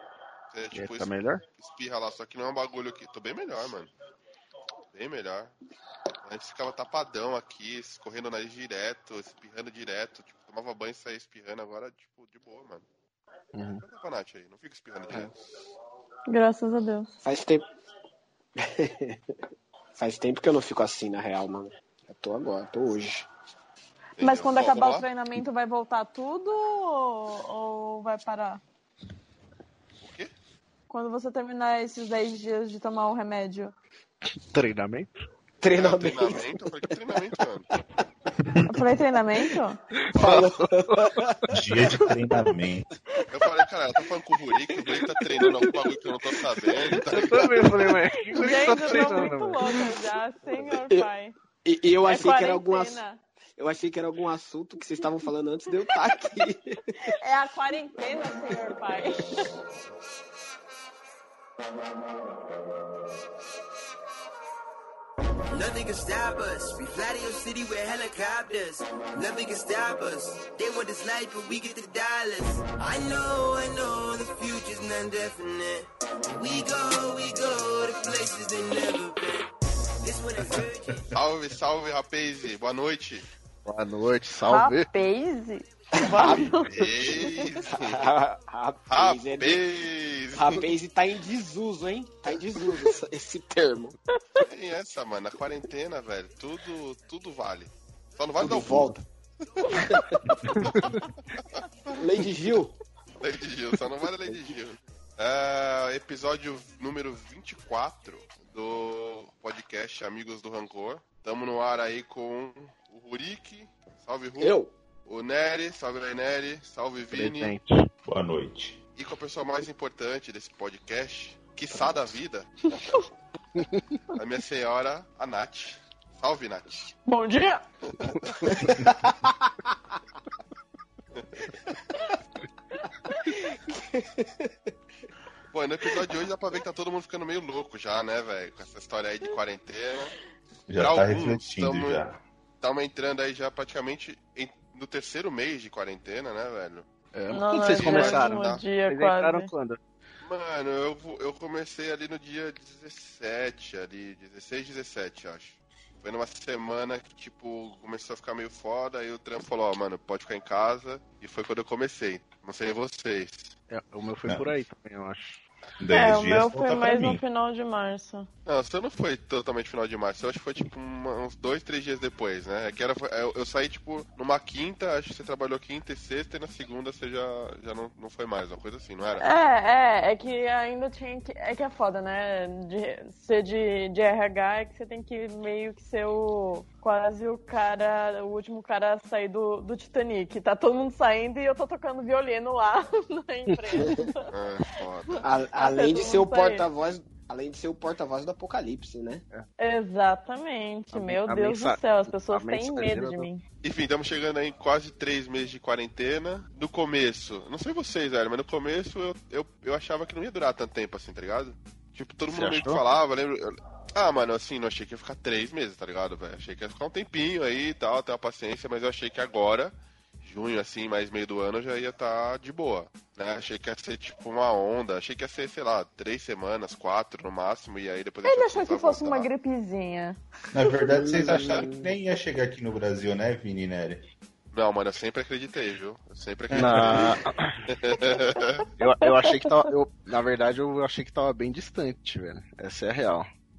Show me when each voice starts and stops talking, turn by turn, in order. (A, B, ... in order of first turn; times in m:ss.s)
0:00.5-0:03.9 A
0:00.7-0:01.4 B
0:04.9-0:05.6 A
0:06.2-0:12.8 A
0:13.5-0:13.8 B
0:13.8-0:15.3 A
0:16.3-0:17.1 C
0:17.2-0:17.6 D
0:18.6-0:19.2 D
0:20.0-0:23.3 D
0:24.2-0:25.1 A
0:24.2-0:28.6 C
0:30.0-0:30.3 A
0:30.9-0:33.7 C
0:34.5-0:35.1 B
0:35.6-0:36.6 D
0:35.7-0:37.7 A
0:38.4-0:38.9 E
0:38.7-0:39.8 C
0:40.0-0:41.8 B
0:40.2-0:41.3 D
0:40.2-0:40.5 A
0:41.5-0:42.9 E
0:43.3-0:47.6 A
0:45.5-0:45.7 B
0:46.9-0:49.6 B
0:48.3-0:51.4 C
0:50.5-0:51.1 D
0:51.6-0:53.0 D
0:52.0-0:53.2 C
0:53.6-0:56.8 D
0:57.1-0:59.6 C
1:05.5-1:19.5 F
1:20.0-1:21.1 F
1:21.1-1:23.2 A
1:23.6-1:24.9 B
1:24.5-1:27.6 C
1:26.0-1:26.5 D
1:26.7-1:28.0 A
1:27.7-1:29.6 D
1:28.9-1:30.7 A
1:30.3-1:34.0 D
1:34.5-1:39.0 A
1:38.4-1:39.0 D
1:39.6-1:40.0 A
1:39.7-1:40.6 D
1:40.6-1:41.9 A
1:42.0-1:42.7 D
1:43.2-1:54.6 A
1:54.4-1:54.7 D
1:55.1-1:57.6 A
1:57.1-1:57.9 B
1:58.0-1:58.8 E
1:59.0-2:02.7 A
2:03.6-2:04.0 B
2:04.1-2:06.7 A
2:07.1-2:07.6 C
2:07.9-2:08.7 A
2:11.2-2:11.5 A
2:13.2-2:14.5 D
2:15.5-2:20.1 A
2:20.7-2:22.2 E
2:20.8-2:22.0 A
2:22.6-2:26.9 A
2:27.1-2:29.8 B
2:27.3-2:29.5 C
2:27.8-2:28.6 A
2:30.2-2:43.6 A
2:43.7-2:45.4 B
2:45.8-2:47.2 E
2:45.9-2:48.3 C
2:48.5-2:59.3 A
2:59.2-3:14.3 C
3:13.5-3:13.8 B
3:13.8-3:14.0 D
3:14.3-3:15.2 A
3:15.2-3:19.2 D
3:15.6-3:16.7 C
3:19.6-3:23.4 C
3:20.9-3:23.3 B
3:23.6-3:49.3 A
3:32.3-3:32.8 B
3:48.2-3:50.2 C
3:50.5-3:54.1 E
3:50.9-3:51.9 D
3:51.3-3:51.6 A
3:54.5-3:58.7 A
3:56.5-3:57.2 E
3:56.5-3:57.6 B
3:58.8-4:03.3 B